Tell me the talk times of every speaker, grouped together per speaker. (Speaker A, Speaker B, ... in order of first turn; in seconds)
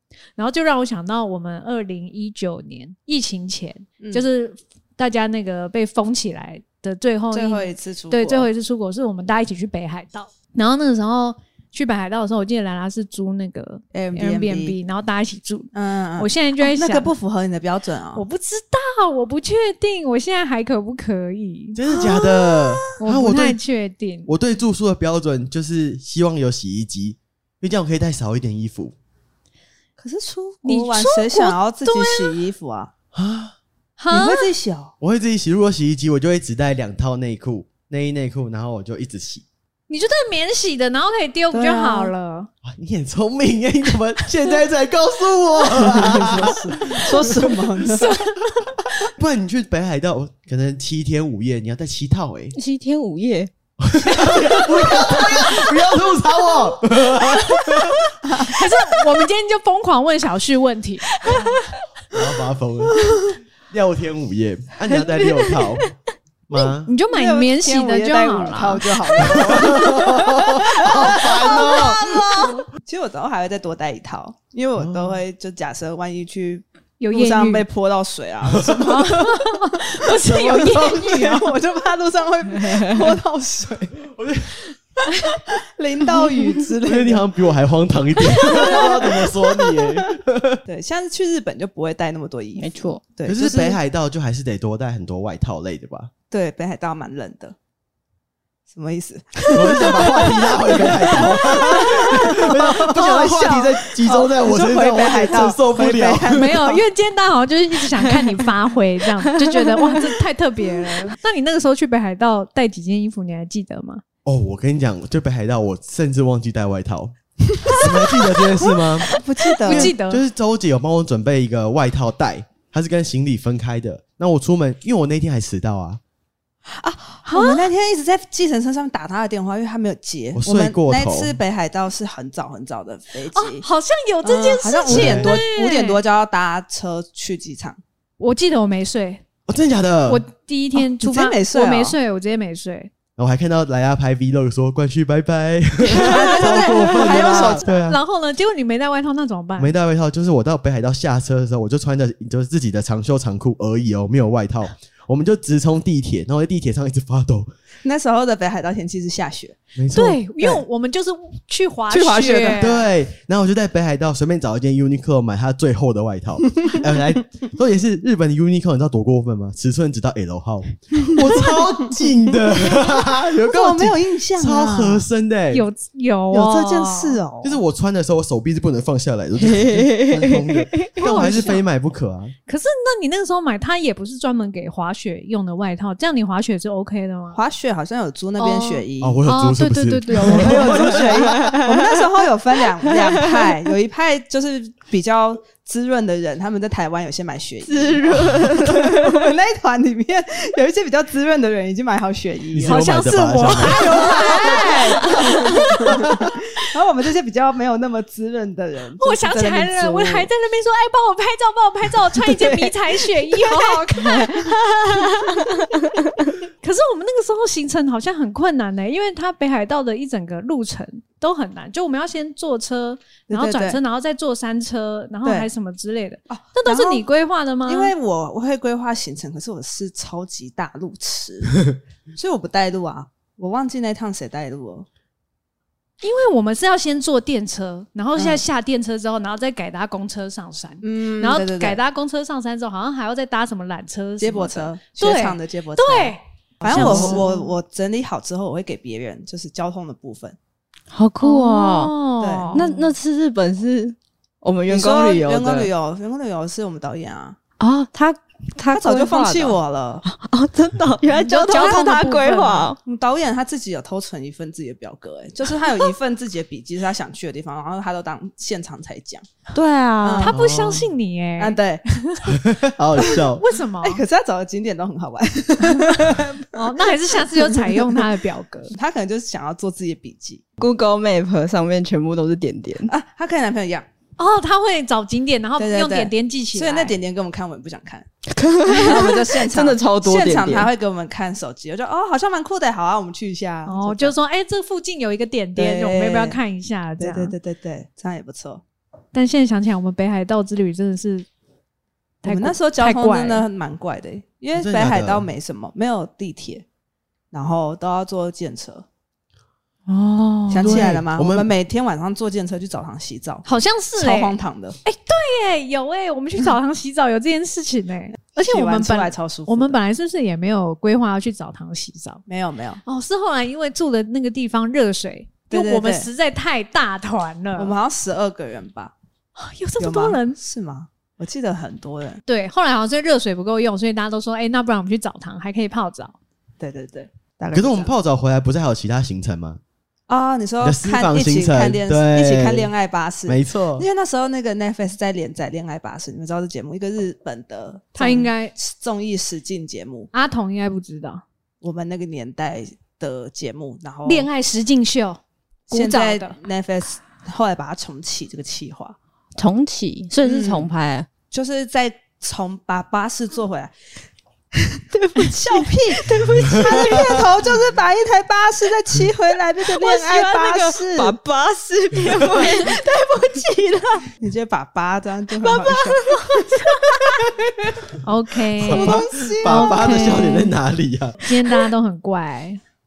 Speaker A: 0.4-17.1, 18.1-24.3, 30.6-32.4, 34.0-34.5, 39.9-42.5, 47.8-49.1, 54.7-55.4, 57.1-57.7, 58.4-61.5, 66.8-69.3, 71.6-72.6, 77.0-77.7, 78.8-81.5, 85.0-85.4, 88.2-89.1, 101.9-102.4, 103.2-103.4, 106.3-114.0, 119.1-120.2, 127.3-127.7, 133.3-136.0, 138.2-139.2, 140.1-142.9, 145.9-149.7, 159.9-162.8, 175.5-177.2, 181.0-181.6, 182.5-187.4, 188.4-191.0, 202.7-206.1, 209.0-214.6, 216.6-227.9, 236.0-247.5, 251.2-252.9, 261.1-262.7, 270.2-271.6, 273.0-274.0, 276.5-278.7, 284.2-287.0, 288.7-289.2, 293.6-297.4, 299.1-301.3, 302.2-303.4, 313.4-322.2, 322.8-327.7, 329.4-330.4, 332.3-336.1, 348.0-348.5, 350.1-351.2, 354.1-355.2, 355.7-356.4, 378.0-380.5, 381.2-382.6
Speaker B: 4.0-4.2, 7.3-8.5, 13.9-14.8, 15.7-18.2, 30.0-32.9, 34.1-34.9, 41.5-42.1, 45.7-48.1, 67.1-84.0, 85.5-87.2, 88.5-89.2, 90.7-93.8, 96.3-97.5, 98.7-106.8, 117.5-118.4, 119.0-119.9, 126.7-133.6, 134.2-137.8, 140.7-141.9, 145.9-147.7, 157.8-159.6, 161.9-162.7, 172.6-175.0, 176.3-177.6, 187.3-189.2, 190.1-210.3, 212.1-215.1, 223.3-223.8, 226.3-227.0, 227.7-231.6, 232.1-234.8, 238.1-238.4, 240.8-241.8, 244.2-250.4, 252.2-252.6, 254.7-257.4, 258.7-260.0, 262.8-269.3, 270.0-270.3, 271.4-272.2, 273.8-278.1, 278.7-280.4, 282.9-283.9, 285.6-288.1, 288.7-294.1, 295.6-296.4, 297.0-298.6, 302.2-306.6, 307.3-308.8, 310.5-313.4, 314.0-314.8, 318.3-319.8, 322.3-322.8, 325.5-326.1, 327.6-328.9, 329.8-332.2, 336.6-337.9, 340.1-350.1, 351.6-354.3, 355.7-359.0, 360.2-360.7, 361.3-363.7, 364.6-371.1, 374.2-376.2, 378.6-380.3
Speaker C: 21.7-23.6, 24.3-28.9, 33.1-33.5, 35.0-39.4, 42.6-47.6, 48.8-52.5, 53.8-58.0, 62.1-63.2, 63.7-65.9, 66.5-66.9, 69.2-72.2, 74.8-75.2, 84.0-84.6, 86.8-90.6, 93.2-96.1, 99.5-106.6, 114.2-117.1, 117.7-119.1, 119.7-126.0, 130.3-131.3, 134.9-135.4, 139.5-140.2, 143.2-148.0, 149.6-157.5, 159.8-160.6, 162.6-175.7, 177.4-182.3, 189.0-191.5, 202.5-206.3, 270.3-270.9, 272.3-273.4, 304.5-305.2, 310.6-311.5, 337.5-339.6, 340.6-342.7, 343.3-343.9, 378.6-381.2
Speaker D: 52.5-53.5, 61.2-61.5, 64.9-65.9, 82.7-83.0, 92.6-93.0, 179.4-180.9, 191.1-191.8, 192.9-193.5, 197.7-199.3, 246.7-247.2, 250.9-251.9, 252.5-255.7, 257.6-262.8, 269.5-270.3, 280.6-282.9, 288.3-290.7, 309.9-310.9, 359.4-361.1, 364.9-367.0, 369.6-374.1, 375.4-377.7